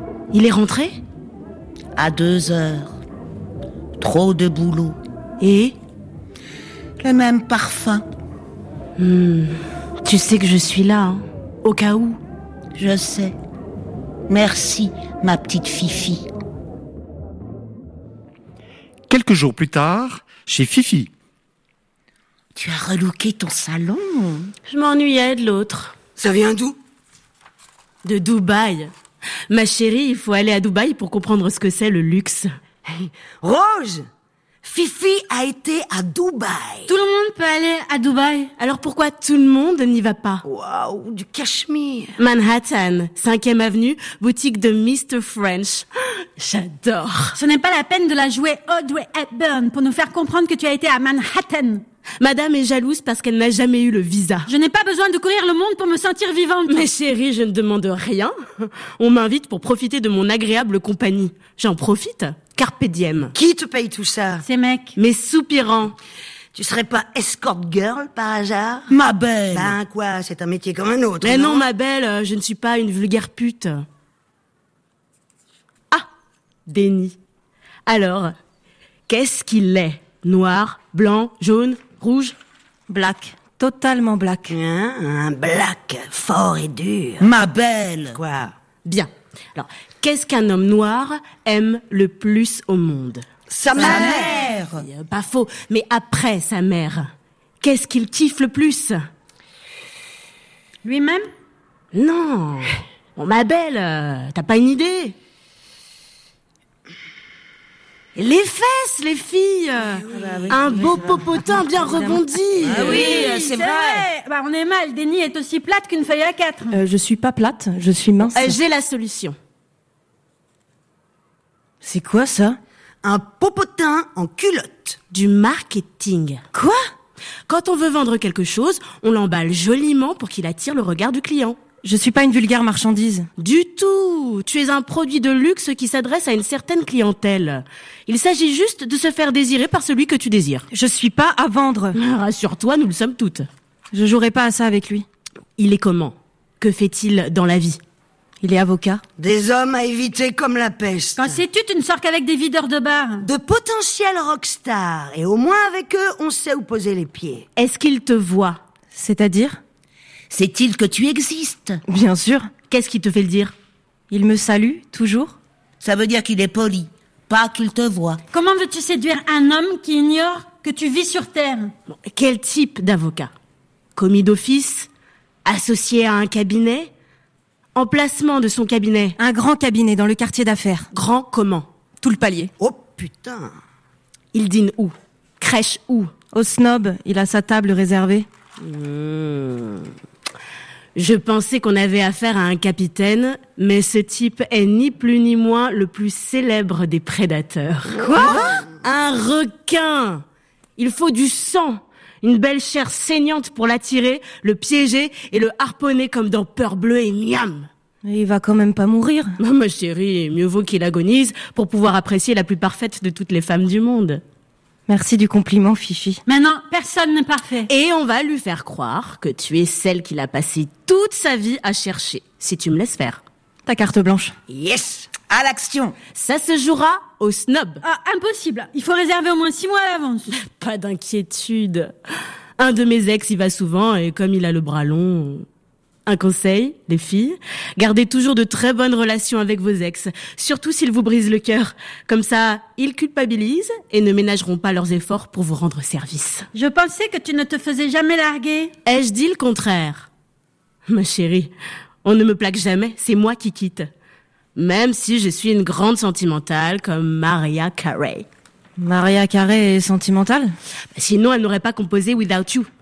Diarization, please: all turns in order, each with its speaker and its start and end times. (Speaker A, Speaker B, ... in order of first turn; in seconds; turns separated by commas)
Speaker A: 0.3-1.0, Speaker B: 1.9-3.0, Speaker B: 4.0-5.0, Speaker A: 5.4-5.8, Speaker B: 7.0-8.1, Speaker A: 9.0-12.2, Speaker B: 12.8-13.3, Speaker B: 14.3-16.3, Speaker C: 19.1-21.1, Speaker B: 22.6-24.5, Speaker A: 24.7-25.9, Speaker D: 26.2-26.8, Speaker A: 28.0-28.9, Speaker A: 29.5-32.5, Speaker D: 32.9-34.1, Speaker D: 34.6-36.9, Speaker E: 36.9-38.5, Speaker A: 38.6-40.4, Speaker D: 40.5-42.2, Speaker A: 42.2-47.4, Speaker E: 47.4-51.8, Speaker A: 52.2-54.5, Speaker E: 54.5-56.9, Speaker A: 56.7-63.3, Speaker D: 63.3-64.4, Speaker E: 64.4-64.9, Speaker A: 65.0-66.0, Speaker D: 66.5-68.9, Speaker B: 68.9-69.8, Speaker D: 69.5-71.7, Speaker A: 71.2-73.8, Speaker A: 76.7-77.2, Speaker A: 77.9-78.3, Speaker A: 79.1-82.4, Speaker F: 82.9-84.5, Speaker D: 84.5-87.3, Speaker B: 87.2-88.2, Speaker D: 88.1-88.5, Speaker A: 88.8-99.1, Speaker D: 93.5-94.4, Speaker B: 93.8-94.8, Speaker E: 100.8-101.3, Speaker A: 101.9-105.2, Speaker A: 108.2-113.3, Speaker F: 110.0-112.2, Speaker D: 110.2-110.8, Speaker B: 112.6-114.1, Speaker E: 112.8-116.8, Speaker F: 116.7-118.6, Speaker A: 118.3-119.4, Speaker F: 121.8-122.6, Speaker D: 123.0-125.0, Speaker A: 125.1-126.4, Speaker F: 126.5-126.9, Speaker A: 127.5-131.6, Speaker F: 131.8-133.3, Speaker A: 133.4-140.7, Speaker F: 140.7-142.0, Speaker A: 141.9-143.5, Speaker F: 143.9-145.1, Speaker A: 145.6-147.8, Speaker F: 148.4-149.0, Speaker D: 149.2-151.4, Speaker E: 151.2-153.3, Speaker D: 153.2-157.5, Speaker A: 157.6-158.6, Speaker F: 158.9-159.6, Speaker B: 160.3-161.8, Speaker F: 161.9-162.5, Speaker A: 162.7-163.5, Speaker F: 164.1-165.4, Speaker B: 165.8-168.2, Speaker E: 168.3-171.7, Speaker A: 171.9-173.3, Speaker A: 174.0-174.9, Speaker A: 175.4-176.9, Speaker A: 177.8-179.2, Speaker F: 179.2-180.9, Speaker A: 180.9-181.7, Speaker F: 182.0-182.5, Speaker D: 182.6-183.6, Speaker A: 184.3-186.1, Speaker F: 186.3-188.3, Speaker A: 188.6-189.9, Speaker A: 190.9-200.2, Speaker F: 198.1-198.6, Speaker A: 200.8-207.7, Speaker F: 208.0-209.4, Speaker A: 209.4-214.2, Speaker F: 214.9-216.2, Speaker E: 216.3-217.7, Speaker A: 217.7-223.2, Speaker F: 223.7-224.3, Speaker D: 224.5-225.1, Speaker B: 225.3-226.0, Speaker A: 226.2-227.8, Speaker E: 227.8-230.3, Speaker A: 230.3-231.9, Speaker A: 232.6-235.5, Speaker A: 236.1-246.5, Speaker E: 246.5-248.7, Speaker A: 248.8-250.1, Speaker A: 250.9-251.5, Speaker A: 252.0-253.9, Speaker A: 254.6-258.3, Speaker F: 258.8-260.6, Speaker A: 260.9-262.7